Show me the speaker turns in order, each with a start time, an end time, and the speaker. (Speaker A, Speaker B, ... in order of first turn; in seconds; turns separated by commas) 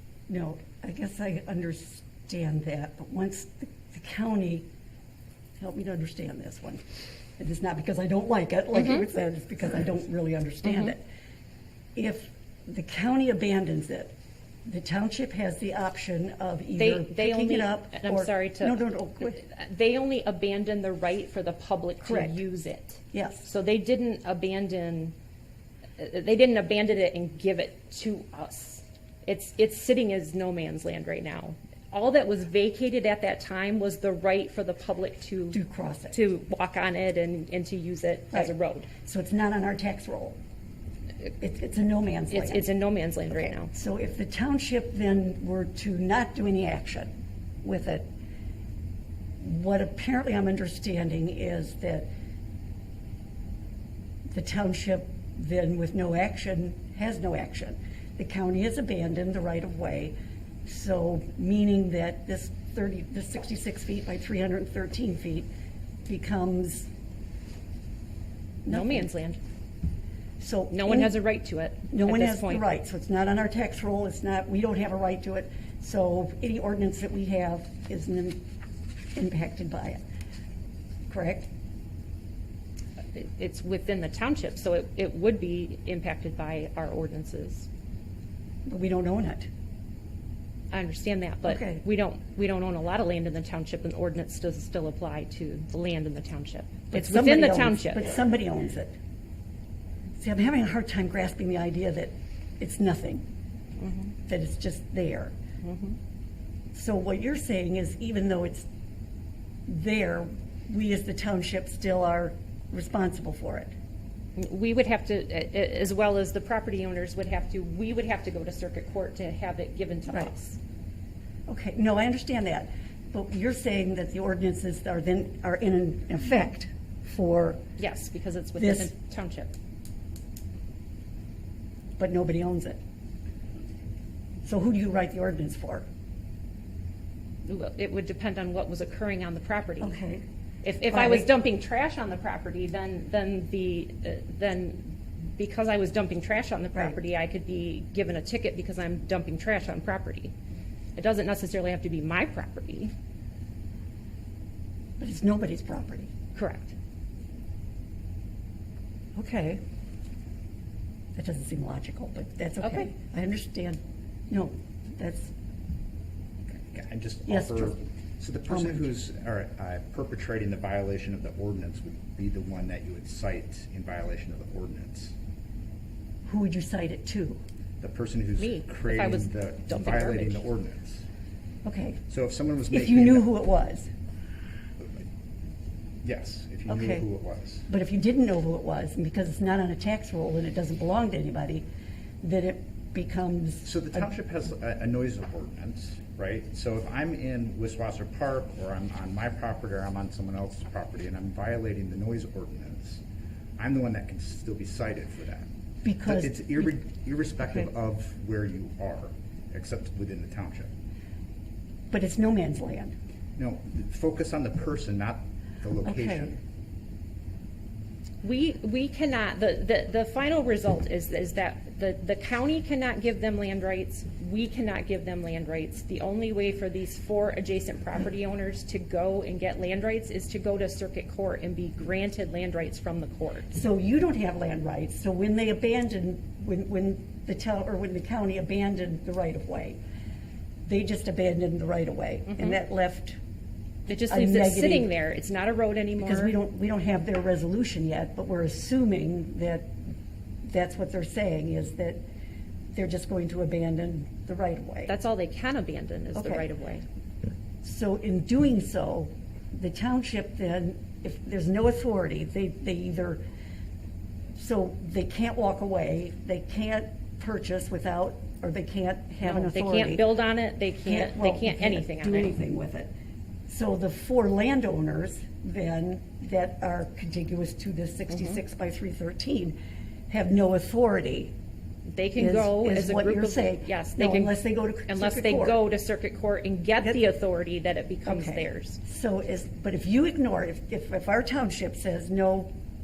Speaker A: 0.3-4.7, Speaker A: 5.6-6.8, Speaker A: 7.4-11.0, Speaker B: 8.8-9.0, Speaker A: 11.9-14.1, Speaker A: 14.6-19.4, Speaker B: 16.8-25.1, Speaker A: 22.0-22.4, Speaker A: 23.1-23.4, Speaker B: 26.0-35.6, Speaker A: 35.5-36.2, Speaker B: 36.1-38.9, Speaker A: 39.0-40.4, Speaker A: 41.4-42.7, Speaker B: 42.3-43.7, Speaker A: 43.7-47.1, Speaker A: 47.6-48.1, Speaker A: 49.4-52.1, Speaker A: 54.3-65.5, Speaker A: 66.0-66.9, Speaker A: 68.6-69.1, Speaker B: 68.7-69.4, Speaker A: 70.4-71.1, Speaker B: 70.7-72.6, Speaker A: 71.9-78.4, Speaker A: 79.1-80.0, Speaker A: 81.1-81.5, Speaker B: 83.1-87.7, Speaker A: 88.6-89.5, Speaker B: 90.7-98.1, Speaker A: 91.4-91.8, Speaker A: 96.9-99.0, Speaker A: 100.2-103.2, Speaker A: 104.3-105.3, Speaker B: 105.6-106.0, Speaker A: 106.7-108.7, Speaker A: 109.7-113.7, Speaker B: 114.4-120.6, Speaker A: 121.5-127.6, Speaker B: 127.8-129.5, Speaker A: 128.6-128.9, Speaker A: 132.0-132.8, Speaker A: 134.4-135.9, Speaker B: 137.4-139.9, Speaker A: 139.8-140.2, Speaker B: 140.6-150.3, Speaker A: 140.9-141.3, Speaker B: 150.9-152.9, Speaker A: 155.0-156.1, Speaker B: 156.3-156.7, Speaker A: 159.1-159.6, Speaker A: 161.1-163.8, Speaker B: 162.6-162.9, Speaker A: 164.3-165.3, Speaker C: 166.7-175.1, Speaker A: 167.2-167.8, Speaker A: 168.5-168.8, Speaker A: 176.2-177.4, Speaker C: 177.8-181.0, Speaker B: 178.4-180.4, Speaker A: 181.6-182.0, Speaker C: 182.1-183.3, Speaker A: 182.7-183.9, Speaker C: 186.0-187.6, Speaker A: 186.7-187.0, Speaker A: 187.7-191.7, Speaker A: 192.2-194.1, Speaker C: 193.6-203.0, Speaker C: 203.6-205.5, Speaker A: 205.8-206.7, Speaker C: 206.0-210.7, Speaker A: 211.9-212.9, Speaker C: 213.4-216.4, Speaker A: 215.8-216.3, Speaker B: 218.2-233.5, Speaker A: 233.5-239.8, Speaker A: 240.6-243.2, Speaker B: 242.3-242.6, Speaker B: 243.9-246.3, Speaker A: 244.1-244.9, Speaker A: 246.0-249.8, Speaker A: 250.4-252.0, Speaker A: 252.7-254.9, Speaker B: 254.9-256.8, Speaker A: 256.1-256.4, Speaker A: 257.6-263.2, Speaker A: 264.3-270.1, Speaker B: 269.2-272.3, Speaker A: 270.8-272.9, Speaker A: 273.5-279.6, Speaker A: 280.1-281.3, Speaker B: 281.9-288.8, Speaker A: 282.1-285.6, Speaker A: 288.1-292.5